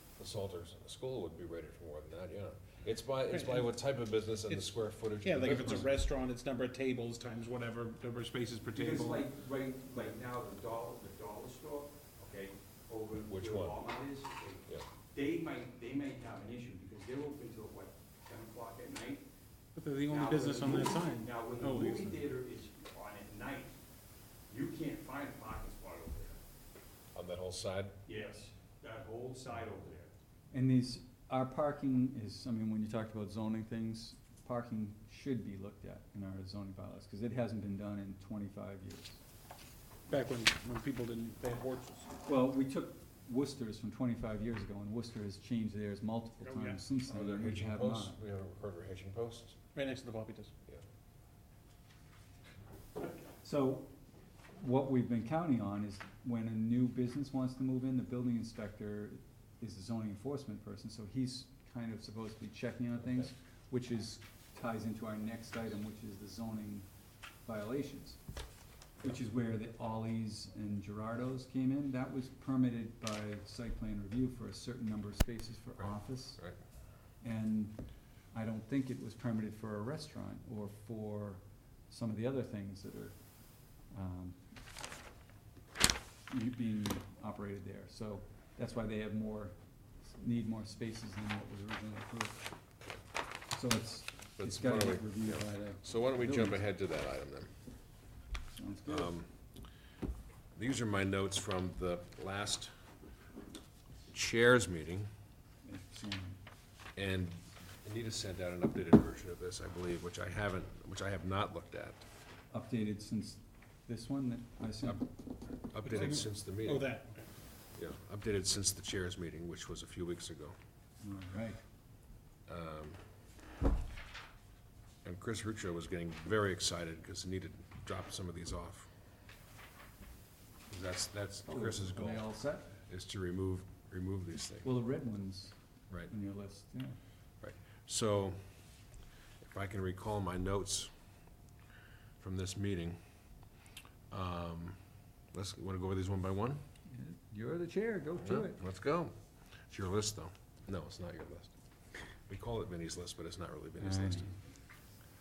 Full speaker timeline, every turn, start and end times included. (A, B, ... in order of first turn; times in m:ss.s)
0:00.2-0:05.9 A
0:03.3-0:03.7 B
0:04.5-0:09.3 B
0:05.4-0:05.8 C
0:08.7-0:19.2 D
0:13.3-0:13.8 A
0:19.8-0:22.3 B
0:20.1-0:23.8 D
0:24.5-0:26.4 D
0:27.1-0:28.0 A
0:28.1-0:30.1 D
0:30.5-0:39.2 C
0:40.1-0:42.1 B
0:42.2-0:48.2 C
0:46.4-0:46.8 D
0:47.1-0:49.6 A
0:49.8-0:50.5 B
0:53.4-0:53.9 C
0:54.6-1:06.9 C
1:07.4-1:08.2 C
1:09.0-1:16.4 C
1:15.8-1:16.6 A
1:17.2-1:17.8 C
1:18.3-1:23.2 C
1:23.9-1:24.4 C
1:26.3-1:32.4 C
1:33.5-1:36.6 C
1:34.4-1:37.5 A
1:38.5-1:39.1 C
1:38.9-1:39.3 A
1:40.6-1:42.7 A
1:44.1-1:45.1 A
1:45.6-1:46.4 C
1:47.0-1:52.0 A
1:52.5-1:55.1 C
1:55.7-1:57.0 A
1:55.9-1:57.3 B
1:57.7-2:00.6 A
2:01.0-2:01.6 C
2:02.5-2:03.0 A
2:05.0-2:08.9 A
2:10.7-2:14.7 A
2:11.5-2:12.7 C
2:14.6-2:17.0 C
2:17.4-2:18.6 A
2:19.4-2:20.9 A
2:22.2-2:23.0 A
2:24.1-2:24.8 A
2:25.3-2:26.6 A
2:26.9-2:28.6 C
2:28.2-2:31.5 A
2:32.3-2:34.4 A
2:33.8-2:34.4 C